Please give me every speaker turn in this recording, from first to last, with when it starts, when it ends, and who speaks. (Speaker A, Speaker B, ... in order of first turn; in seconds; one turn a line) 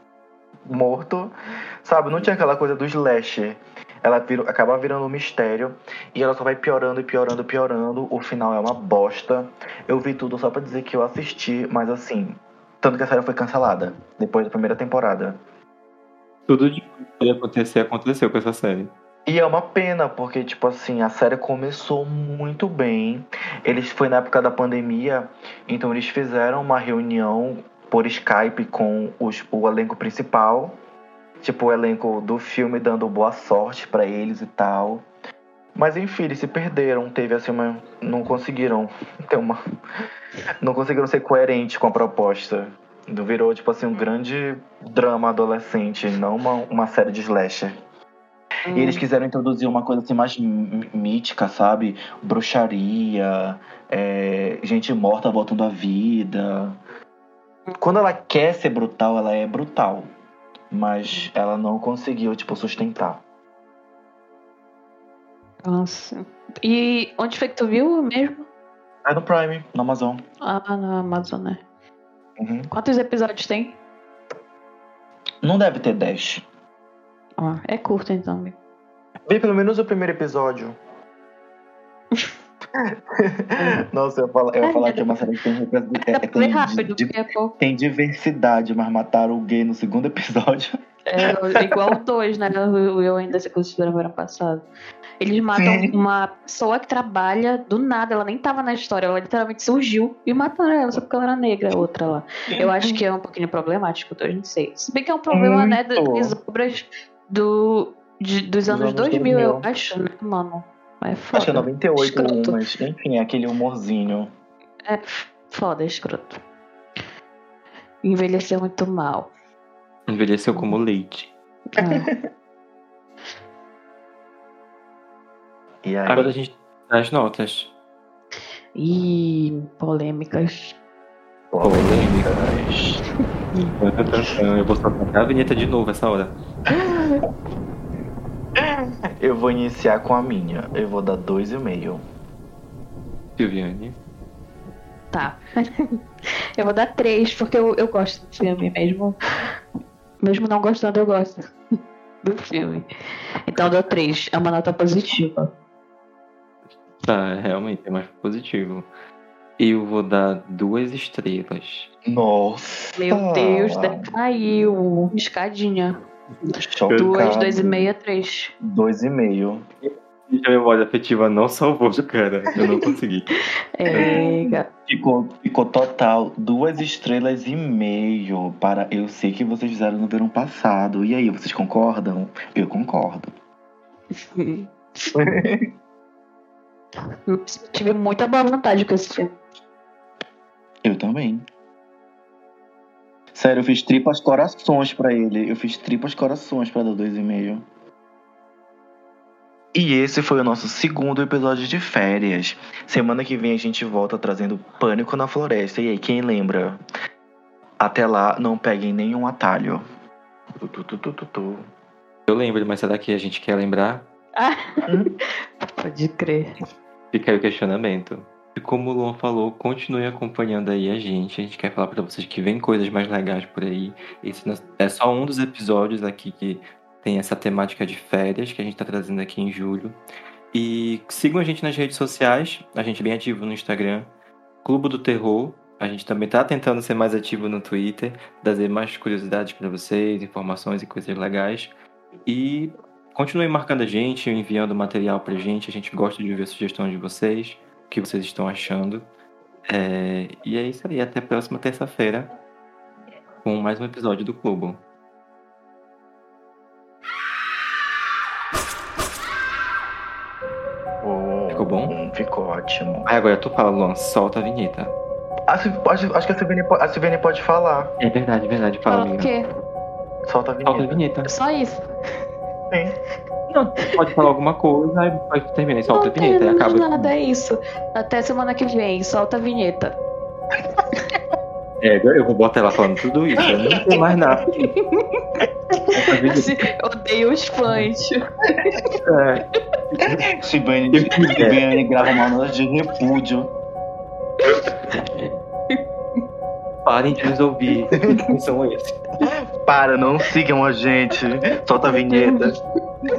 Speaker A: 0.7-15.4
Speaker B: 16.5-18.9
Speaker A: 19.3-30.7
Speaker A: 31.4-35.0
Speaker A: 35.7-39.6
Speaker A: 40.6-47.7
Speaker C: 48.6-49.0
Speaker A: 48.7-56.8
Speaker A: 57.8-60.1
Speaker A: 60.7-63.2
Speaker C: 65.6-68.4
Speaker A: 69.0-70.2
Speaker C: 70.4-71.6
Speaker A: 72.4-72.7
Speaker C: 72.7-73.7
Speaker A: 75.4-76.4
Speaker C: 77.4-78.5
Speaker A: 79.3-80.8
Speaker A: 83.1-91.8
Speaker C: 84.6-85.1
Speaker C: 86.0-87.5
Speaker C: 91.1-94.6
Speaker C: 95.2-112.6
Speaker A: 95.5-95.9
Speaker A: 102.6-103.0
Speaker A: 105.3-106.3
Speaker A: 108.7-109.7
Speaker A: 111.3-114.3
Speaker C: 114.9-116.4
Speaker C: 118.0-119.3
Speaker B: 120.1-121.3
Speaker C: 121.8-122.1
Speaker A: 121.8-122.2
Speaker A: 125.8-126.3
Speaker B: 126.1-127.7
Speaker C: 128.7-130.7
Speaker A: 131.5-133.0
Speaker B: 131.6-132.3
Speaker B: 133.8-136.3
Speaker C: 136.7-137.2
Speaker A: 138.6-142.0
Speaker B: 143.4-143.9
Speaker C: 145.1-146.0
Speaker C: 146.6-149.2
Speaker C: 150.2-151.5
Speaker C: 152.2-152.8
Speaker C: 153.5-155.5
Speaker B: 157.0-158.9
Speaker B: 159.6-161.9
Speaker A: 162.1-164.1
Speaker C: 162.9-168.5
Speaker A: 166.6-167.9
Speaker B: 166.8-167.1
Speaker A: 168.6-169.6
Speaker B: 169.8-173.3
Speaker C: 173.8-174.7
Speaker B: 173.9-174.2
Speaker A: 173.9-183.3
Speaker C: 184.2-185.1
Speaker A: 185.1-185.7
Speaker C: 187.3-189.3
Speaker A: 190.8-191.4
Speaker A: 193.3-197.6
Speaker A: 199.7-206.8
Speaker A: 207.8-209.8
Speaker A: 210.6-211.7
Speaker B: 212.3-214.0
Speaker C: 214.3-216.5
Speaker A: 214.9-215.1
Speaker B: 217.1-230.0
Speaker B: 230.5-234.1
Speaker B: 234.6-241.7
Speaker B: 242.2-249.0
Speaker B: 249.7-252.3
Speaker B: 253.4-254.8
Speaker A: 261.0-263.1
Speaker B: 261.5-261.9
Speaker B: 263.1-264.9
Speaker A: 265.5-267.9
Speaker B: 268.0-269.3
Speaker C: 268.8-269.4
Speaker A: 270.2-271.0
Speaker B: 270.6-271.3
Speaker C: 271.2-271.8
Speaker A: 272.7-272.9
Speaker B: 273.5-277.1
Speaker C: 275.9-279.9
Speaker B: 281.8-284.7
Speaker C: 284.8-285.2
Speaker C: 285.8-288.8
Speaker B: 285.9-286.6
Speaker B: 289.1-290.3
Speaker A: 290.2-293.5
Speaker B: 290.9-291.6
Speaker C: 294.4-295.8
Speaker B: 296.8-299.0
Speaker C: 297.9-298.3
Speaker A: 299.6-302.5
Speaker C: 302.1-302.4